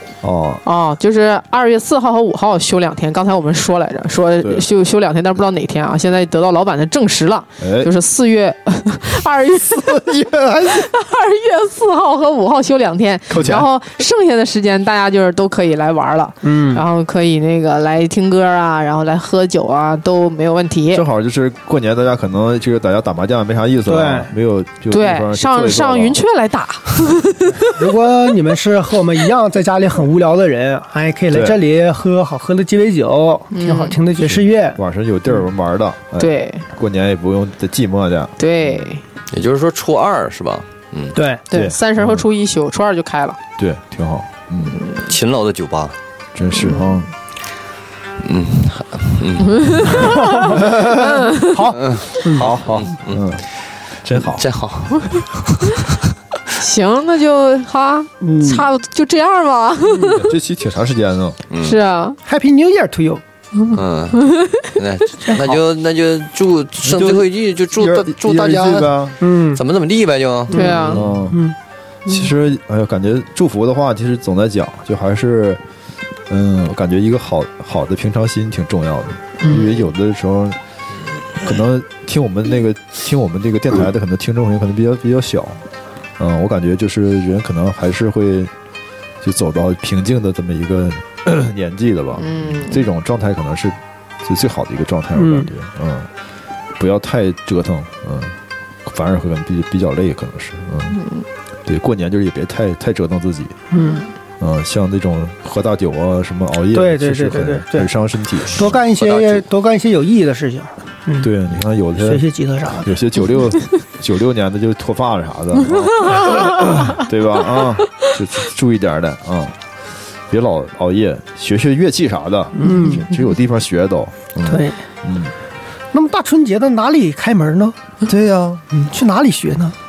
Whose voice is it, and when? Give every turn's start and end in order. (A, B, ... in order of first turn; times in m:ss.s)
0:00.2-0:00.6 A
0:00.6-0:10.0 B
0:04.4-0:04.6 A
0:07.6-0:07.9 A
0:09.6-0:10.9 A
0:10.7-0:21.0 B
0:13.3-0:13.7 A
0:16.4-0:16.8 C
0:20.9-0:26.2 A
0:23.9-0:24.3 C
0:24.9-0:27.6 B
0:27.7-0:34.8 C
0:31.3-0:31.6 A
0:33.5-0:34.0 B
0:34.2-0:38.9 A
0:36.2-0:36.7 B
0:38.4-0:39.0 B
0:39.3-0:41.2 D
0:41.2-0:41.4 C
0:41.5-0:43.4 B
0:41.5-0:42.3 A
0:43.6-0:44.8 A
0:45.1-0:46.0 D
0:46.4-0:47.1 A
0:46.6-0:46.9 B
0:48.2-0:50.1 D
0:49.7-0:50.4 B
0:50.1-0:52.5 C
0:50.5-0:51.2 A
0:51.1-0:51.6 B
0:51.7-0:53.2 D
0:52.4-0:53.4 A
0:54.0-0:54.4 A
0:54.4-0:56.0 D
0:56.6-1:00.2 B
0:58.2-0:58.6 C
1:00.0-1:01.4 A
1:01.5-1:01.8 D
1:01.6-1:02.2 B
1:02.2-1:03.2 C
1:03.7-1:08.9 D
1:04.3-1:04.6 B
1:06.8-1:09.2 A
1:09.2-1:09.6 C
1:09.5-1:10.6 D
1:10.5-1:11.6 C
1:10.5-1:11.0 B
1:10.9-1:11.4 A
1:12.1-1:15.6 A
1:16.3-1:20.6 A
1:21.4-1:25.6 A
1:26.2-1:28.5 A
1:29.2-1:36.1 A
1:32.2-1:32.9 B
1:35.2-1:35.5 C
1:36.8-1:41.0 A
1:41.0-1:41.2 B
1:41.7-1:43.6 A
1:43.7-1:44.1 C
1:44.4-1:48.7 A
1:46.7-1:47.9 C
1:48.5-1:49.5 D
1:48.5-1:51.3 C
1:51.2-1:59.6 A
1:52.0-1:52.9 C
2:00.3-2:05.3 A
2:02.6-2:03.0 C
2:04.5-2:04.8 C
2:05.9-2:07.8 C
2:08.1-2:08.6 A
2:08.7-2:09.8 C